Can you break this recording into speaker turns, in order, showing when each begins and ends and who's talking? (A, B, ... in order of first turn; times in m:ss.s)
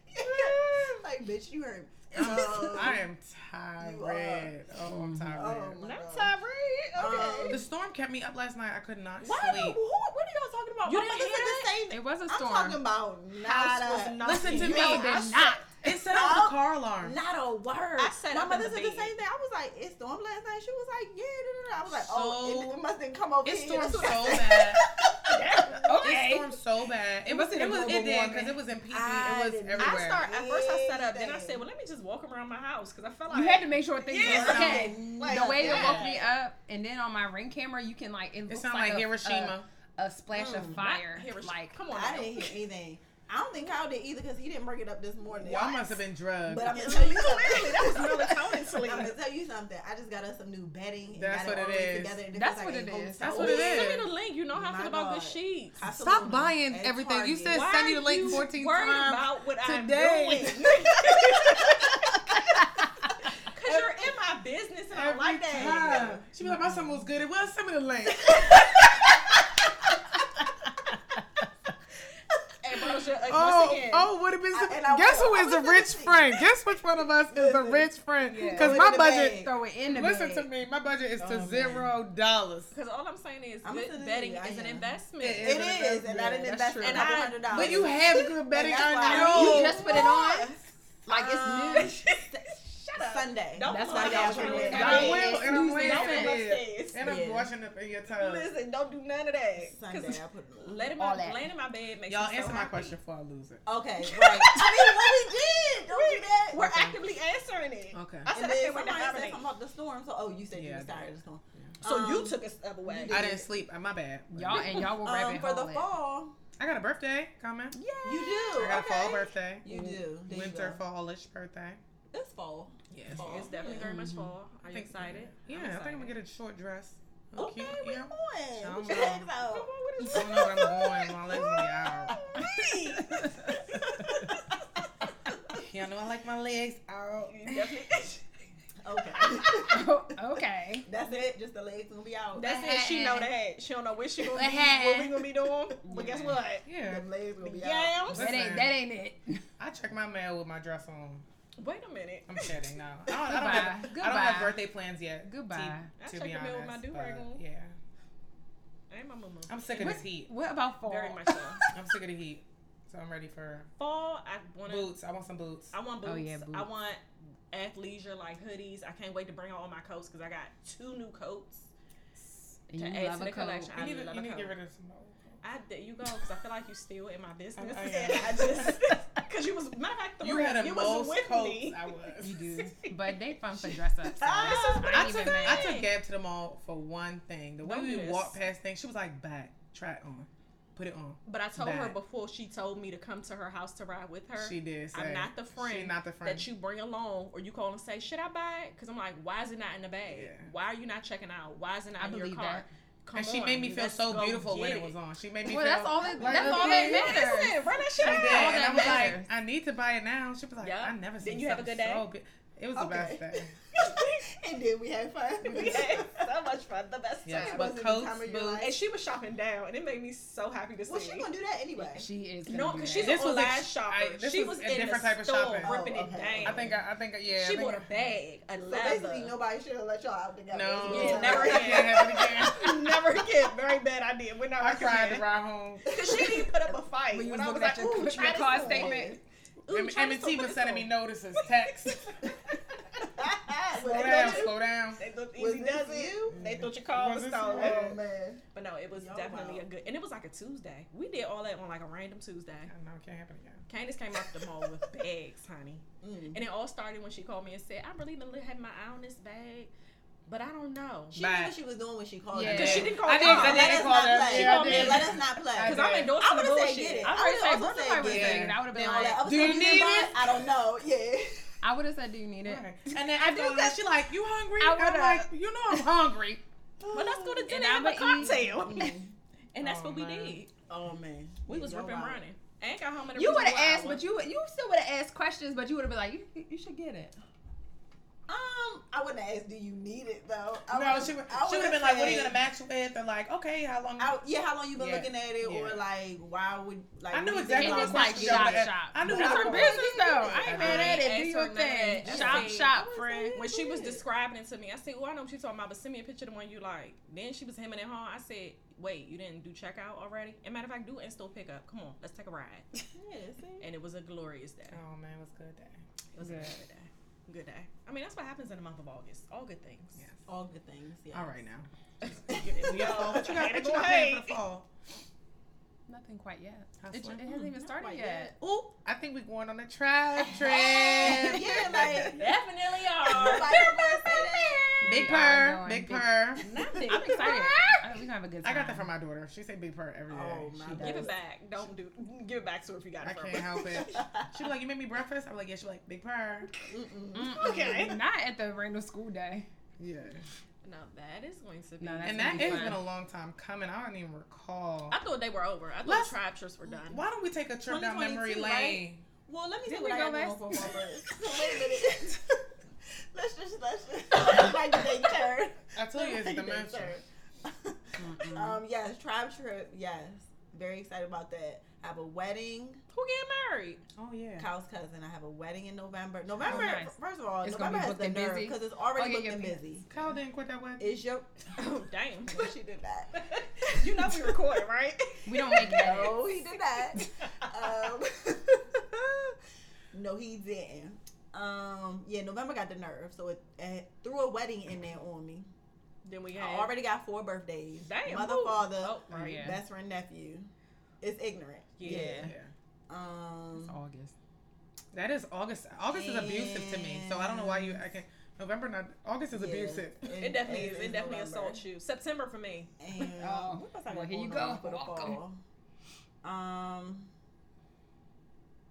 0:00.1-0:03.0 A
0:00.2-0:00.9 B
0:02.1-0:05.8 C
0:03.8-0:04.5 A
0:04.8-0:05.4 D
0:05.3-0:06.3 A
0:05.8-0:07.6 B
0:07.0-0:07.6 A
0:07.5-0:09.8 C
0:09.2-0:25.8 A
0:10.8-0:11.8 B
0:11.9-0:12.8 D
0:13.3-0:15.3 B
0:14.2-0:17.2 C
0:14.5-0:15.7 D
0:18.0-0:19.2 B
0:22.0-0:22.8 C
0:23.4-0:24.8 C
0:25.3-0:25.9 B
0:25.8-0:26.5 D
0:26.0-0:30.2 C
0:27.3-0:28.5 D
0:28.9-0:31.6 A
0:29.8-0:36.3 B
0:33.3-0:41.8 D
0:34.2-0:35.0 C
0:34.2-0:36.1 A
0:35.6-0:36.1 C
0:38.5-0:39.7 C
0:40.3-0:40.8 A
0:40.8-0:42.6 B
0:41.9-0:54.0 A
0:45.4-0:47.0 C
0:46.6-0:49.2 B
0:51.2-0:52.2 C
0:52.3-0:53.4 D
0:53.2-0:54.1 C
0:53.2-0:55.8 B
0:54.5-0:58.4 A
0:55.8-1:02.6 C
0:57.5-1:02.0 B
1:03.4-1:06.2 B
1:04.9-1:11.7 C
1:05.5-1:06.3 A
1:06.6-1:06.9 D
1:08.3-1:08.6 B
1:12.6-1:14.1 B
1:13.2-1:22.7 C
1:14.5-1:16.5 A
1:17.3-1:17.9 A
1:18.2-1:20.5 D
1:18.5-1:19.5 A
1:21.2-1:21.9 A
1:22.7-1:25.7 B
1:23.6-1:24.9 A
1:25.2-1:30.0 C
1:25.4-1:35.4 A
1:26.8-1:27.9 B
1:29.0-1:32.0 D
1:31.7-1:37.1 B
1:33.6-1:36.4 D
1:34.0-1:38.5 C
1:37.0-1:37.5 A
1:38.1-1:43.0 B
1:39.6-1:40.9 A
1:41.0-1:41.5 D
1:42.1-1:43.6 C
1:43.7-1:46.7 A
1:44.1-1:45.3 B
1:45.9-1:49.4 B
1:46.6-1:47.0 C
1:47.9-1:48.3 C
1:48.3-1:53.5 A
1:50.5-1:51.8 C
1:51.8-1:53.3 B
1:53.1-1:54.9 C
1:54.3-1:55.9 D
1:54.8-1:56.4 A
1:56.6-1:57.8 C
1:57.7-1:58.8 D
1:58.0-2:00.8 A
1:58.6-2:01.8 C
1:59.7-2:00.0 D
2:02.1-2:03.9 A
2:02.9-2:06.2 B
2:03.1-2:03.5 C
2:03.8-2:04.3 D
2:04.7-2:09.3 C
2:07.4-2:13.0 A
2:09.0-2:10.7 B
2:10.1-2:12.2 C
2:12.1-2:14.9 B
2:15.6-2:17.6 C
2:17.3-2:18.2 B
2:18.8-2:19.9 A
2:19.1-2:19.7 B
2:19.7-2:20.9 D
2:20.9-2:22.5 A
2:22.4-2:26.7 B
2:22.4-2:23.3 D
2:24.3-2:25.2 D
2:25.9-2:26.4 D
2:26.6-2:27.1 C
2:26.8-2:28.0 A
2:27.4-2:28.2 B
2:28.1-2:28.8 C
2:28.2-2:29.4 D
2:29.6-2:31.3 C
2:31.6-2:32.5 B
2:32.3-2:37.8 C
2:33.3-2:34.6 D
2:35.2-2:35.9 D
2:36.0-2:37.4 B
2:38.9-2:40.0 B
2:39.5-2:40.3 C
2:39.8-2:41.7 D
2:40.8-2:41.6 B
2:41.8-2:43.7 C
2:43.8-2:45.0 B
2:44.7-2:45.8 C
2:45.7-2:47.0 B
2:46.0-2:46.7 D
2:47.5-2:51.7 B
2:52.7-2:53.7 D
2:52.7-2:54.6 B
2:53.8-2:55.4 C
2:55.4-3:01.9 B
2:57.6-2:59.0 C
3:00.2-3:02.6 C
3:02.2-3:05.8 D
3:04.2-3:04.9 A
3:04.2-3:05.9 B
3:04.9-3:12.0 C
3:07.6-3:08.4 B
3:11.3-3:25.0 B
3:14.4-3:16.5 C
3:20.1-3:20.5 C
3:22.0-3:22.7 D
3:23.1-3:27.3 C
3:25.5-3:29.3 D
3:26.0-3:26.3 A
3:26.2-3:29.1 B
3:28.0-3:33.6 C
3:30.6-3:32.1 B
3:32.8-3:36.3 A
3:33.7-3:34.3 B
3:35.4-3:37.8 B
3:37.2-3:38.7 C
3:37.3-3:38.8 A
3:38.6-3:41.3 B
3:40.9-3:42.1 A
3:41.9-3:43.3 D
3:42.5-3:46.8 B
3:43.0-3:45.8 C
3:45.6-3:46.8 A
3:46.4-3:47.8 C
3:47.4-3:49.4 B
3:48.6-3:52.3 A
3:50.5-3:53.2 C
3:50.8-3:55.3 B
3:54.6-3:55.9 C
3:55.9-3:56.7 A
3:55.9-3:59.0 B
3:57.1-3:59.2 D
3:57.7-3:59.2 A
3:59.7-4:02.4 B
3:59.7-4:02.2 C
4:03.2-4:04.5 A
4:03.5-4:07.9 B
4:03.8-4:05.0 C
4:05.4-4:06.4 A
4:06.3-4:08.0 C
4:07.5-4:08.4 A
4:08.5-4:12.7 B
4:08.9-4:09.6 A
4:12.7-4:13.6 C
4:13.7-4:19.7 B
4:16.0-4:16.4 A
4:20.3-4:21.2 B
4:21.1-4:31.6 A
4:21.2-4:21.6 C
4:22.3-4:23.4 D
4:22.4-4:26.2 C
4:22.4-4:27.2 B
4:27.0-4:29.8 D
4:28.0-4:28.5 C
4:29.2-4:30.5 C
4:31.6-4:33.8 D
4:32.4-4:36.4 C
4:34.6-4:36.2 D
4:36.8-4:37.5 A
4:36.9-4:39.0 B
4:37.5-4:39.0 D
4:38.2-4:39.1 A
4:39.5-4:40.5 B
4:39.6-4:40.4 C
4:40.7-4:42.2 A
4:41.5-4:44.0 B
4:43.2-4:47.2 D
4:48.3-4:52.4 A
4:50.7-4:54.2 C
4:54.0-5:01.0 A
4:54.8-4:55.8 C
4:57.1-4:59.8 C
4:57.6-5:03.4 D
5:00.4-5:02.8 B
5:00.6-5:01.0 C
5:02.0-5:04.0 A
5:03.3-5:12.7 B
5:13.0-5:13.7 A
5:13.6-5:14.8 B
5:14.7-5:15.8 C
5:16.1-5:20.1 B
5:16.2-5:16.6 D
5:20.3-5:21.4 A
5:21.1-5:24.7 C
5:22.0-5:24.4 B
5:22.3-5:23.3 A
5:25.9-5:28.4 D
5:26.8-5:27.2 C
5:27.3-5:28.4 A
5:28.4-5:32.2 C
5:30.3-5:32.3 A
5:31.1-5:31.4 D
5:32.1-5:34.6 B
5:33.0-5:35.0 A
5:34.8-5:36.5 C
5:34.8-5:38.9 D
5:36.4-5:37.8 B
5:36.5-5:37.0 A
5:38.4-5:40.9 C
5:40.1-5:41.1 A
5:40.6-5:41.1 D
5:40.8-5:44.1 B
5:43.0-5:46.5 C
5:43.9-5:44.2 A
5:46.7-5:47.8 A
5:47.1-5:49.5 D
5:47.2-5:48.0 B
5:49.8-5:50.2 C
5:50.6-5:52.8 B
5:51.8-5:52.8 D
5:52.0-5:55.0 C
5:54.9-5:57.0 B
5:55.8-5:59.0 C
5:57.6-6:02.4 A
5:59.7-6:00.6 D
6:03.1-6:12.8 A
6:05.8-6:07.0 C
6:08.0-6:08.6 D
6:12.9-6:13.8 B
6:14.0-6:14.5 C
6:14.4-6:19.9 A
6:16.4-6:19.6 D
6:19.9-6:21.0 C
6:20.8-6:21.5 A
6:21.5-6:22.6 B
6:22.3-6:24.3 A
6:23.2-6:26.2 B
6:25.3-6:26.3 D
6:25.6-6:29.4 A
6:29.9-6:35.5 A
6:36.0-6:36.8 B
6:36.4-6:42.3 A
6:37.8-6:39.5 B
6:39.1-6:39.6 D
6:41.8-6:42.3 B
6:42.0-6:42.5 C
6:42.9-6:43.8 A
6:43.6-6:44.2 D
6:44.9-6:50.1 C
6:45.9-6:47.8 A
6:49.3-6:51.6 A
6:50.2-6:52.7 B
6:52.8-6:55.4 A
6:53.0-6:55.2 D
6:56.2-6:57.1 A